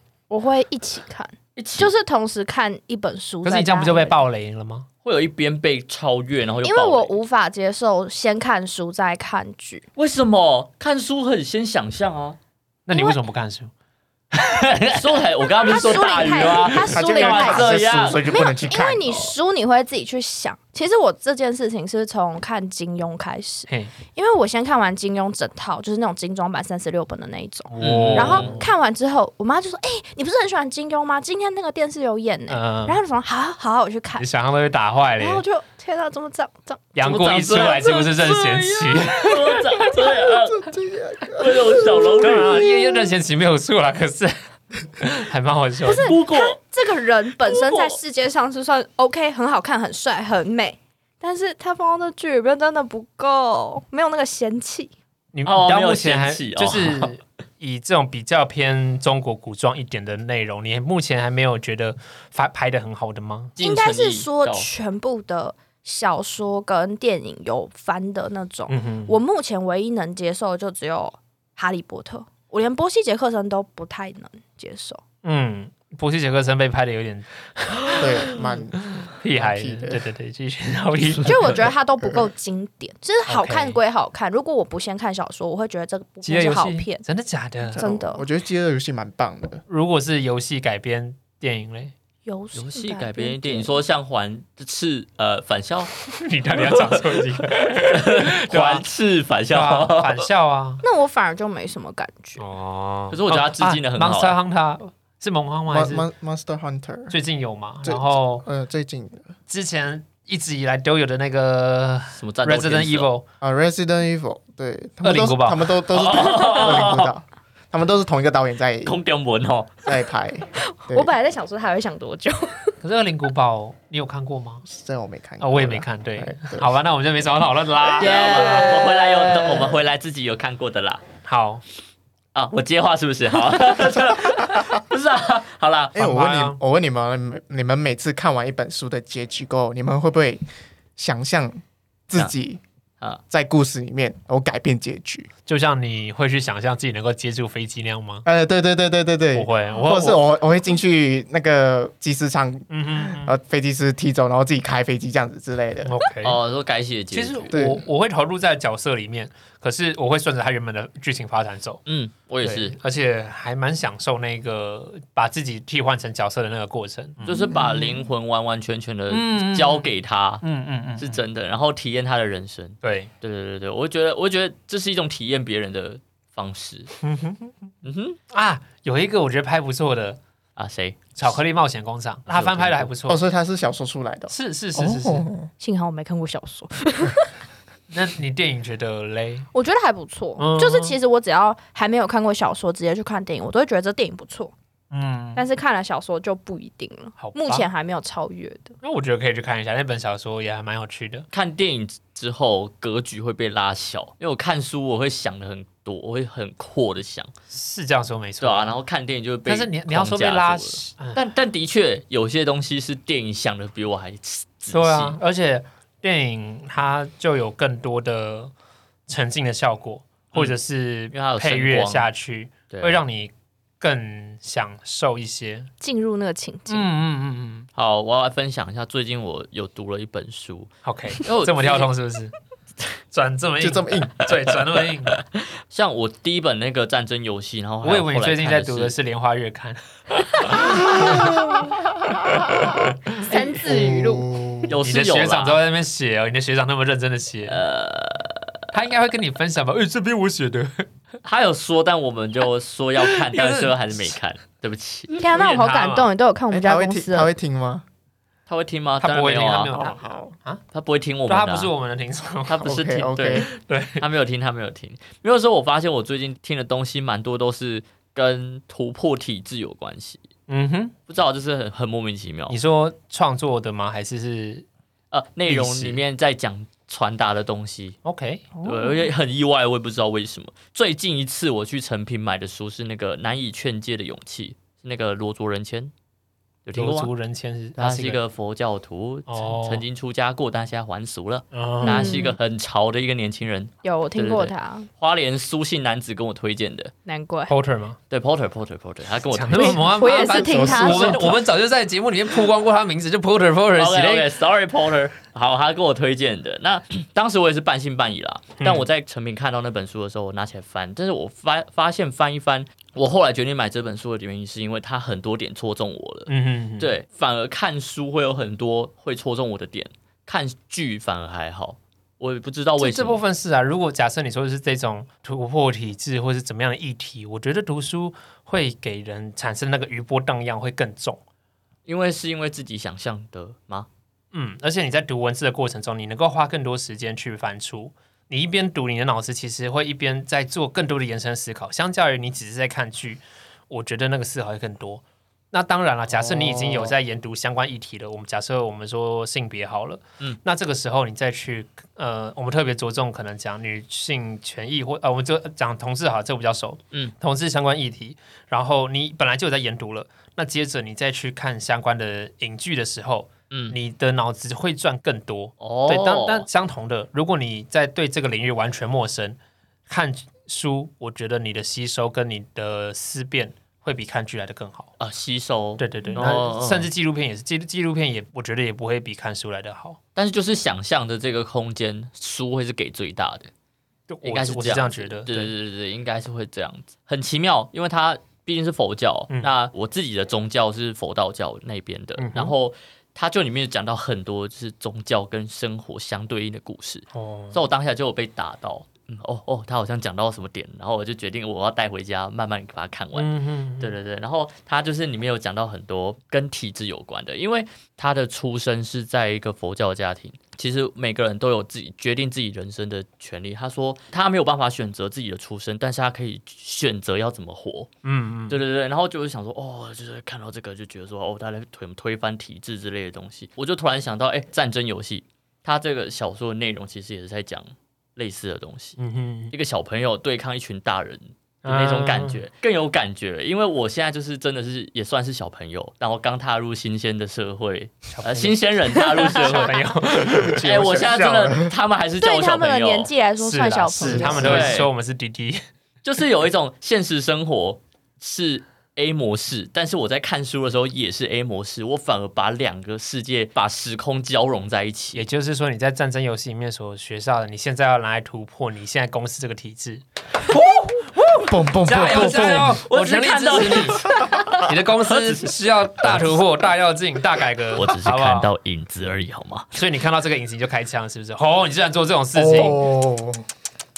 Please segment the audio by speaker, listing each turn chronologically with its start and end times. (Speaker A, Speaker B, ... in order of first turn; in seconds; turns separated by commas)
Speaker A: 0.3-4.2, Speaker B: 1.6-1.9, Speaker C: 3.4-4.9, Speaker B: 5.0-7.1, Speaker A: 6.6-9.8, Speaker B: 10.0-12.4, Speaker C: 12.9-13.7, Speaker A: 12.9-13.2, Speaker C: 14.3-14.9, Speaker B: 14.7-18.4, Speaker A: 15.6-34.3, Speaker D: 16.9-19.3, Speaker C: 27.7-28.7, Speaker B: 27.8-28.6, Speaker C: 32.5-33.0, Speaker C: 34.2-35.4, Speaker A: 35.2-36.9, Speaker C: 37.0-39.6, Speaker B: 37.0-40.7, Speaker D: 40.3-42.2, Speaker B: 41.3-42.6, Speaker C: 42.2-46.1, Speaker A: 45.8-54.9, Speaker B: 46.0-46.6, Speaker B: 47.5-48.0, Speaker C: 55.3-63.5, Speaker B: 55.5-57.1, Speaker B: 63.6-64.7, Speaker A: 63.6-75.0, Speaker C: 68.7-69.2, Speaker C: 75.2-78.3, Speaker D: 78.0-80.0, Speaker C: 79.0-81.6, Speaker A: 81.2-87.0, Speaker C: 83.3-83.8, Speaker C: 86.2-87.9, Speaker D: 87.7-89.6, Speaker A: 87.8-88.3, Speaker C: 89.7-91.9, Speaker A: 92.2-93.8, Speaker B: 92.5-95.9, Speaker C: 96.1-98.9, Speaker B: 96.5-97.2, Speaker B: 97.8-100.3, Speaker C: 99.5-100.8, Speaker A: 100.8-102.4, Speaker C: 102.4-106.1, Speaker B: 103.1-104.4, Speaker D: 105.7-107.2, Speaker C: 107.1-108.5, Speaker D: 107.8-109.3, Speaker C: 109.5-113.3, Speaker B: 112.1-113.1, Speaker D: 113.4-119.0, Speaker C: 115.0-115.8, Speaker B: 115.9-117.1, Speaker B: 118.8-119.7, Speaker D: 119.8-121.1, Speaker A: 120.6-122.8, Speaker C: 122.8-124.6, Speaker D: 124.7-126.7, Speaker C: 125.4-128.8, Speaker B: 128.0-131.0, Speaker A: 128.2-129.0, Speaker C: 131.2-131.6, Speaker B: 132.3-136.0, Speaker D: 133.9-134.5, Speaker D: 135.9-140.4, Speaker C: 136.0-136.6, Speaker D: 141.0-142.6, Speaker D: 143.3-145.3, Speaker C: 145.5-148.2, Speaker D: 148.2-155.9, Speaker C: 149.3-150.2, Speaker C: 152.7-153.3, Speaker C: 155.8-156.4, Speaker B: 156.2-157.5, Speaker C: 157.1-161.8, Speaker D: 157.5-157.8, Speaker B: 161.9-162.8, Speaker C: 162.4-168.0, Speaker B: 167.2-170.4, Speaker C: 169.1-171.2, Speaker B: 171.0-176.9, Speaker C: 172.8-173.1, Speaker C: 177.0-177.5, Speaker B: 177.8-178.2, Speaker C: 178.3-180.2, Speaker B: 180.6-181.1, Speaker C: 181.2-183.2, Speaker B: 182.3-182.9, Speaker D: 183.1-185.5, Speaker C: 184.3-185.3, Speaker A: 185.6-187.3, Speaker C: 187.9-189.5, Speaker A: 189.5-194.5, Speaker C: 190.4-191.0, Speaker C: 194.9-195.4, Speaker A: 195.3-198.8, Speaker C: 197.2-197.7, Speaker C: 198.8-201.3, Speaker B: 201.3-207.3, Speaker C: 207.5-208.8, Speaker B: 208.4-215.2, Speaker C: 209.5-211.2, Speaker C: 214.7-218.5, Speaker C: 219.1-225.7, Speaker B: 221.1-222.1, Speaker B: 222.7-223.0, Speaker A: 225.8-226.9, Speaker C: 226.7-227.7, Speaker B: 227.8-231.9, Speaker C: 230.8-232.3, Speaker C: 233.1-235.2, Speaker D: 233.6-234.2, Speaker B: 235.1-238.9, Speaker C: 237.8-241.4, Speaker A: 243.2-244.4, Speaker D: 243.6-244.7, Speaker B: 244.7-245.6, Speaker C: 244.8-247.6, Speaker B: 247.5-248.6, Speaker C: 248.7-250.9, Speaker B: 251.2-255.2, Speaker C: 253.0-254.2, Speaker A: 255.1-257.3, Speaker C: 255.3-256.1, Speaker D: 256.5-257.9, Speaker B: 258.5-259.8, Speaker C: 259.0-260.6, Speaker D: 259.7-260.3, Speaker B: 260.7-261.7, Speaker C: 261.3-262.8, Speaker B: 262.5-270.3, Speaker D: 262.6-263.5, Speaker C: 263.4-264.0, Speaker C: 270.5-270.9, Speaker B: 271.1-272.6, Speaker C: 272.5-274.7, Speaker B: 275.1-278.0, Speaker C: 275.5-276.0, Speaker C: 278.0-278.5, Speaker B: 278.6-285.9, Speaker B: 286.6-287.1, Speaker C: 286.7-288.2, Speaker B: 287.8-296.9, Speaker C: 289.3-289.8, Speaker C: 291.5-292.2, Speaker A: 291.8-292.4, Speaker A: 293.8-294.9, Speaker A: 297.1-297.5, Speaker C: 297.5-298.0, Speaker B: 298.1-299.9, Speaker C: 299.3-304.3, Speaker A: 299.5-301.4, Speaker D: 300.2-301.4, Speaker B: 303.8-323.2, Speaker C: 308.6-308.9, Speaker C: 316.3-316.9, Speaker C: 322.8-331.2, Speaker B: 331.9-333.9, Speaker C: 334.3-374.9, Speaker B: 346.2-346.9, Speaker B: 363.5-363.8, Speaker B: 365.6-366.5, Speaker B: 375.0-376.9, Speaker C: 375.8-380.0, Speaker B: 380.1-383.5, Speaker C: 384.1-385.5, Speaker B: 384.2-417.9, Speaker C: 392.2-392.5, Speaker C: 397.1-397.6, Speaker C: 403.1-403.9, Speaker C: 418.0-418.6, Speaker B: 418.5-429.0, Speaker C: 429.0-429.5, Speaker B: 429.5-439.8, Speaker C: 431.6-432.4, Speaker C: 438.1-438.6, Speaker A: 439.0-439.8, Speaker C: 439.4-440.6, Speaker D: 440.1-441.7, Speaker B: 440.5-443.1, Speaker A: 442.2-444.7, Speaker C: 443.4-445.6, Speaker D: 444.0-444.8, Speaker B: 444.4-444.9, Speaker B: 446.0-455.2, Speaker C: 455.1-460.0, Speaker B: 460.5-466.4, Speaker D: 461.4-462.8, Speaker C: 461.9-468.5, Speaker B: 467.7-469.7, Speaker C: 469.7-472.9, Speaker D: 472.4-473.4